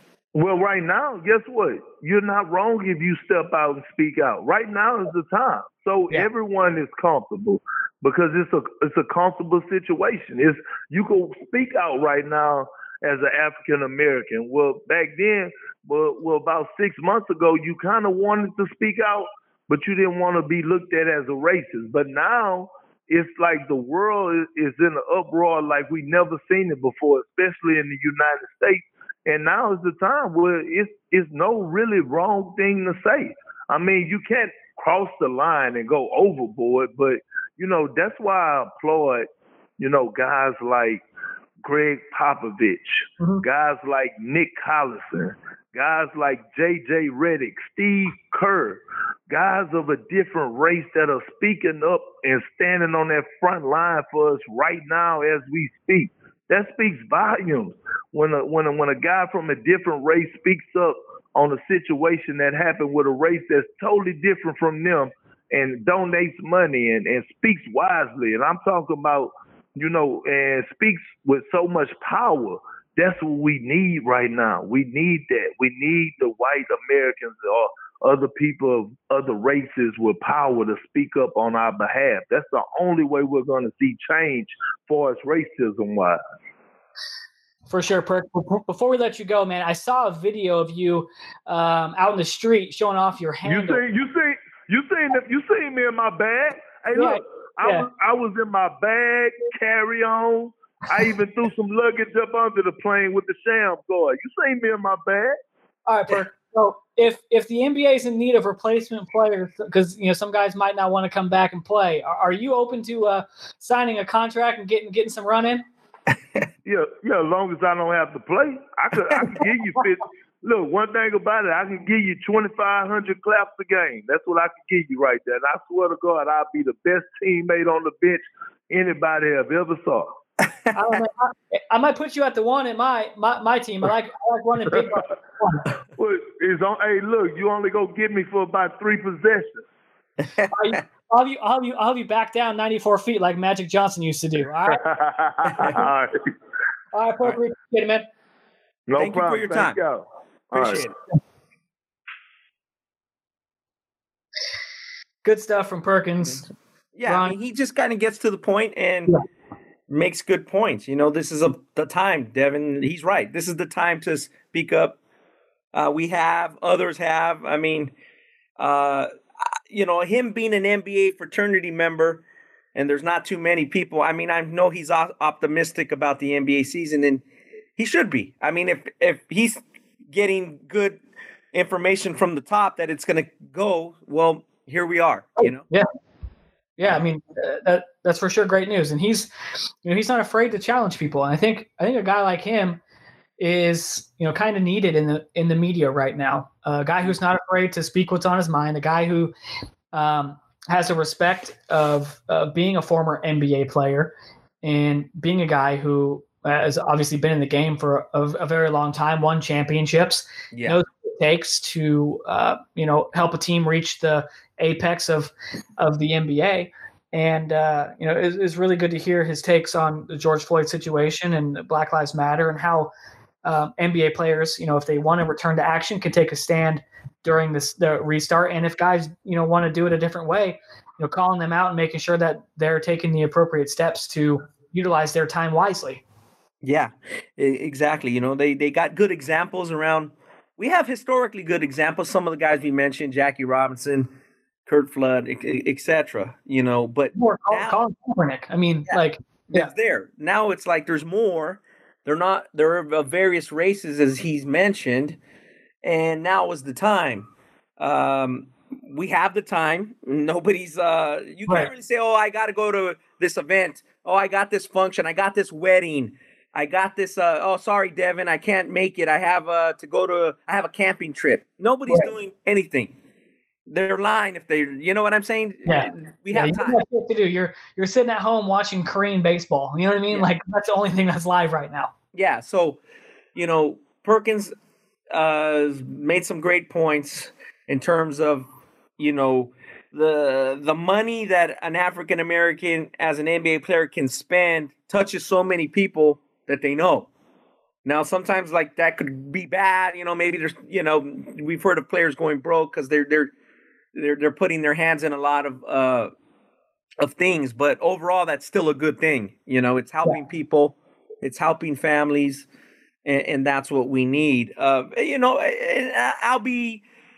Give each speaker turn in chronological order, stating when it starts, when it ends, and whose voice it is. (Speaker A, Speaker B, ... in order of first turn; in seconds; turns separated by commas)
Speaker A: 0.3-39.3, Speaker A: 39.8-41.0, Speaker A: 41.6-86.2, Speaker B: 87.7-93.8, Speaker A: 93.5-105.4, Speaker B: 96.9-97.9, Speaker B: 105.9-115.6, Speaker A: 116.6-130.1, Speaker C: 130.4-130.7, Speaker B: 130.7-135.7, Speaker A: 136.0-139.6, Speaker C: 140.2-140.8, Speaker B: 140.5-144.8, Speaker A: 144.7-146.2, Speaker C: 145.4-145.8, Speaker B: 146.9-148.1, Speaker A: 148.9-150.9, Speaker C: 149.0-149.8, Speaker C: 150.5-150.9, Speaker B: 155.2-156.5, Speaker C: 156.9-159.1, Speaker B: 157.1-157.3, Speaker C: 159.9-165.0, Speaker C: 165.7-167.9, Speaker C: 168.6-169.1, Speaker C: 169.7-172.2, Speaker C: 172.7-177.2, Speaker C: 177.8-181.0, Speaker C: 181.5-185.7, Speaker B: 185.4-185.9, Speaker B: 186.8-189.3, Speaker B: 189.8-192.8, Speaker B: 193.4-199.3, Speaker B: 199.9-222.9, Speaker B: 223.4-236.0, Speaker C: 236.6-244.1, Speaker C: 244.7-247.8, Speaker B: 247.1-249.7, Speaker C: 249.5-255.2, Speaker C: 255.8-272.9, Speaker C: 273.7-276.8, Speaker B: 275.7-281.9, Speaker C: 282.1-282.8, Speaker C: 283.4-284.5, Speaker C: 285.1-288.5, Speaker C: 289.0-297.1, Speaker C: 297.9-303.3, Speaker C: 303.9-306.1, Speaker C: 307.0-312.4, Speaker C: 313.1-316.8